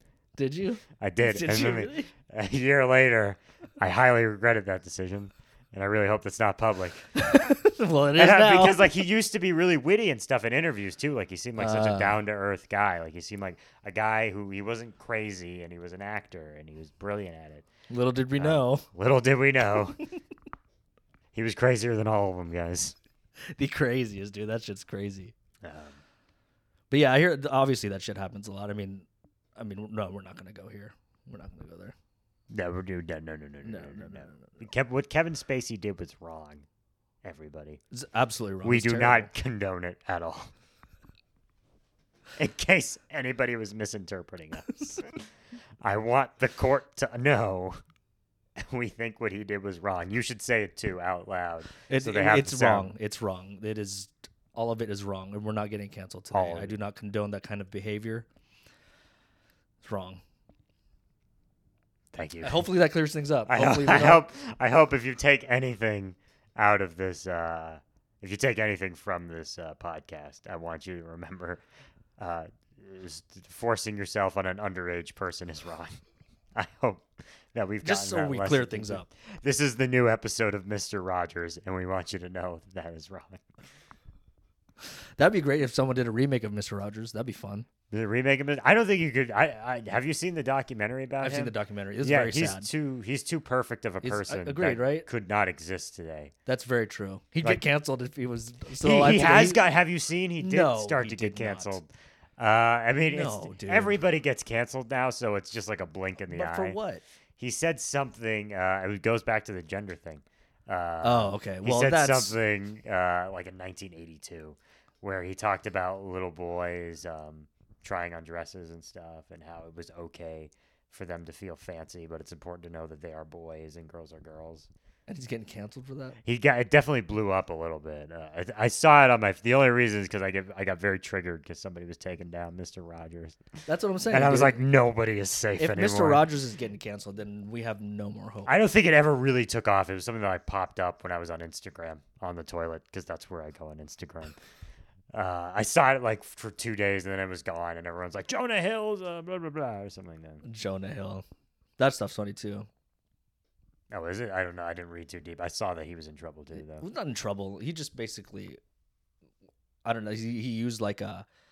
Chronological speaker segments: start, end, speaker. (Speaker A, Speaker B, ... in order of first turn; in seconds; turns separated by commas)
Speaker A: 0.4-2.1, Speaker B: 1.0-7.1, Speaker A: 7.2-8.9, Speaker B: 8.1-17.7, Speaker A: 11.6-12.2, Speaker A: 17.9-18.9, Speaker B: 18.4-20.0, Speaker B: 21.3-22.9, Speaker A: 23.5-25.3, Speaker B: 25.6-26.0, Speaker A: 26.9-31.9, Speaker B: 32.5-36.6, Speaker A: 33.6-34.7, Speaker B: 37.2-37.8, Speaker A: 37.9-39.3, Speaker B: 38.6-40.5, Speaker B: 42.4-45.2, Speaker B: 45.8-47.8, Speaker B: 48.6-52.9, Speaker A: 51.9-58.3, Speaker B: 56.3-56.8, Speaker A: 59.8-60.2, Speaker B: 62.1-62.7, Speaker A: 62.4-64.2, Speaker B: 63.5-71.6, Speaker B: 72.2-76.0, Speaker B: 76.5-83.4, Speaker A: 77.8-79.1, Speaker A: 85.2-87.7, Speaker B: 87.9-96.3, Speaker A: 91.2-92.7, Speaker A: 94.0-95.1, Speaker A: 96.5-99.6, Speaker B: 98.8-106.8, Speaker A: 100.4-101.8, Speaker A: 103.1-104.0, Speaker A: 106.3-107.0, Speaker B: 107.4-124.7, Speaker A: 111.0-112.3, Speaker A: 125.1-126.2, Speaker B: 126.2-133.4, Speaker A: 133.7-134.6, Speaker B: 134.1-136.3, Speaker A: 135.6-138.5, Speaker B: 138.4-144.4, Speaker B: 145.1-150.4, Speaker A: 150.4-151.2, Speaker A: 151.8-152.7, Speaker B: 153.9-156.9, Speaker A: 156.6-158.6, Speaker A: 159.8-161.2